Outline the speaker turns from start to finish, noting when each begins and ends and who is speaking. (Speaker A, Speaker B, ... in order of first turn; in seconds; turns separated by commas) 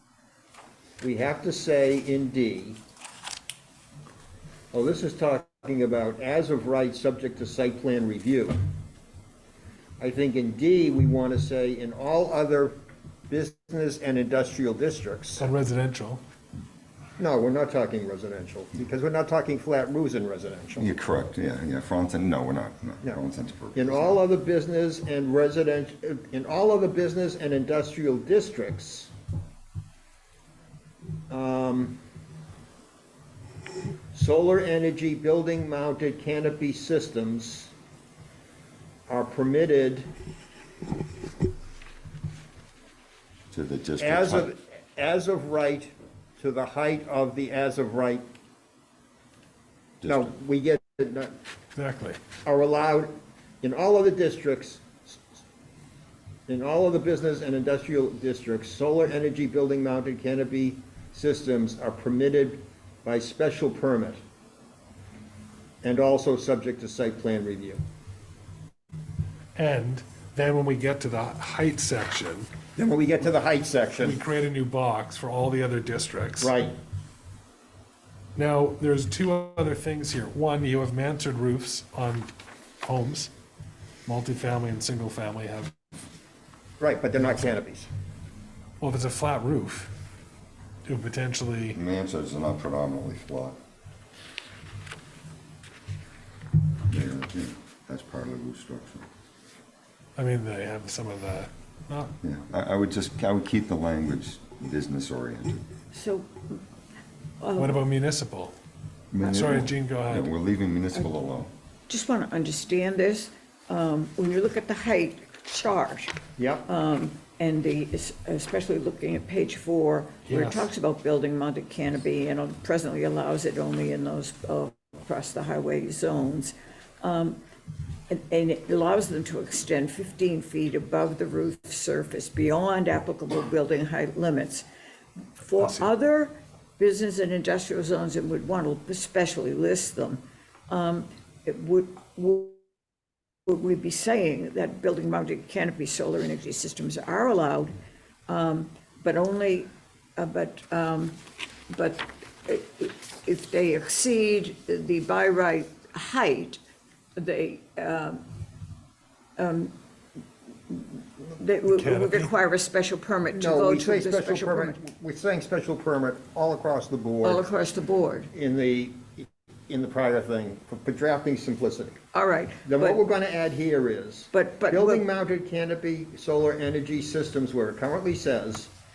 Speaker A: 1.0-2.8, Speaker A: 4.7-8.6, Speaker A: 10.0-12.8, Speaker A: 13.3-15.4, Speaker B: 15.4-16.2, Speaker A: 17.2-20.9, Speaker C: 20.8-24.1, Speaker A: 23.7-29.1, Speaker A: 31.3-32.0, Speaker A: 34.1-37.7, Speaker A: 39.1-40.1, Speaker C: 43.5-44.5, Speaker A: 44.0-48.2, Speaker C: 50.0-50.3, Speaker A: 50.1-51.4, Speaker B: 51.8-52.2, Speaker A: 52.4-55.4, Speaker A: 56.5-64.2, Speaker A: 65.8-67.8, Speaker B: 69.5-72.5, Speaker A: 72.7-74.2, Speaker B: 74.0-76.5, Speaker A: 76.4-76.8, Speaker B: 78.3-82.3, Speaker B: 82.8-83.3, Speaker B: 84.0-85.7, Speaker A: 86.8-87.9, Speaker B: 88.8-89.9, Speaker B: 90.8-91.8, Speaker C: 91.7-93.6, Speaker C: 96.9-99.1, Speaker B: 100.2-102.1, Speaker C: 102.2-105.6, Speaker D: 105.9-106.6, Speaker D: 107.4-107.8, Speaker B: 107.6-108.5, Speaker C: 109.1-111.5, Speaker B: 109.2-110.3, Speaker D: 111.9-116.1, Speaker A: 116.4-116.7, Speaker D: 116.7-127.4, Speaker B: 120.2-120.7, Speaker D: 128.1-134.7, Speaker D: 135.4-142.6, Speaker B: 135.5-135.9, Speaker D: 143.5-147.7, Speaker D: 148.3-151.2, Speaker D: 151.7-156.6, Speaker D: 157.2-158.2, Speaker D: 159.4-159.7, Speaker D: 160.7-164.8, Speaker B: 161.6-162.3, Speaker A: 163.3-167.5, Speaker D: 167.2-168.3, Speaker A: 168.3-172.0, Speaker D: 172.1-173.0, Speaker A: 172.6-178.7, Speaker D: 174.3-175.0